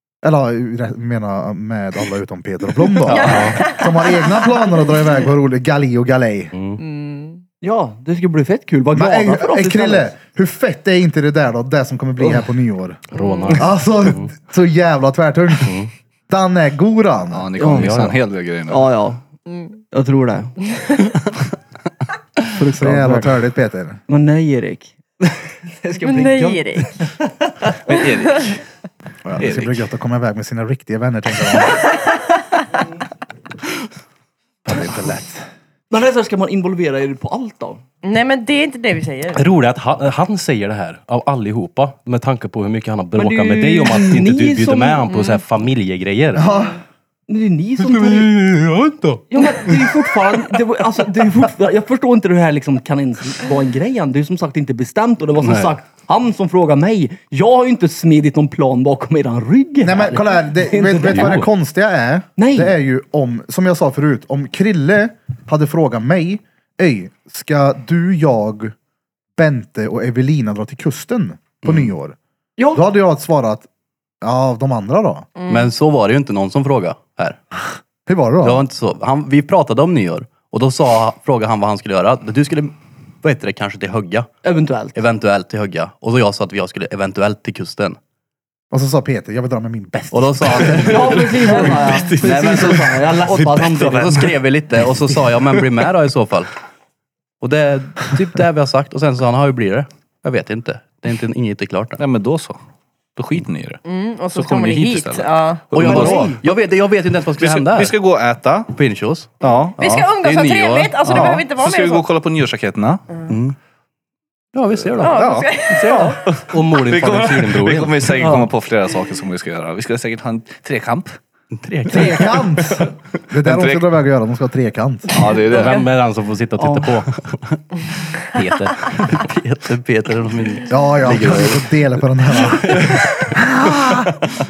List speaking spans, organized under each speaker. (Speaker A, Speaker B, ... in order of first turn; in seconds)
Speaker A: 0.2-6.5, 8.9-13.0, 13.5-15.8, 16.3-17.5, 22.6-24.0, 29.2-31.8, 34.7-35.3, 46.3-46.8, 59.8-68.7, 69.4-72.2, 72.7-73.7, 74.2-75.3, 78.0-78.6, 88.7-91.1, 121.9-125.1, 130.7-134.2
Speaker B: 3.1-4.9, 6.8-7.4, 13.1-13.7, 19.5-19.8, 20.8-21.1, 26.0-27.1, 38.0-39.4, 45.1-45.4, 46.4-46.8, 75.4-75.7, 103.8-105.8, 109.4-112.1, 115.0-116.2, 125.2-125.8
Speaker C: 3.1-3.5, 71.6-71.9, 75.5-77.4, 78.4-84.3, 84.9-88.0, 90.1-96.5, 97.4-102.0, 105.7-108.0, 108.7-111.4, 113.3-113.5, 114.5-115.3, 118.2-118.5, 121.5-122.5, 129.0-131.8
Speaker D: 3.1-3.6, 6.5-6.8, 13.1-14.3, 15.6-15.9, 17.7-18.2, 39.3-46.5, 47.8-50.0, 55.4-55.8, 61.1-61.5, 116.5-118.3, 125.5-127.4, 128.3-129.1, 132.4-133.0
Speaker E: 7.6-10.1, 12.2-12.4, 17.6-17.9, 18.7-19.2, 19.9-20.5, 22.6-23.4, 24.1-27.9, 35.9-37.8, 43.1-45.1, 47.3-48.3, 49.3-61.4, 62.4-62.8, 72.6-72.8, 84.4-85.0, 90.7-94.3, 105.7-106.4, 115.8-116.2, 126.6-127.0
Speaker F: 17.3-18.9, 27.8-28.6, 29.4-29.9, 91.4-92.8, 102.0-102.6, 103.2-103.8, 104.3-106.4, 107.4-108.7, 109.4-109.8, 111.0-113.0, 114.8-121.2, 123.4-123.9, 125.1-125.8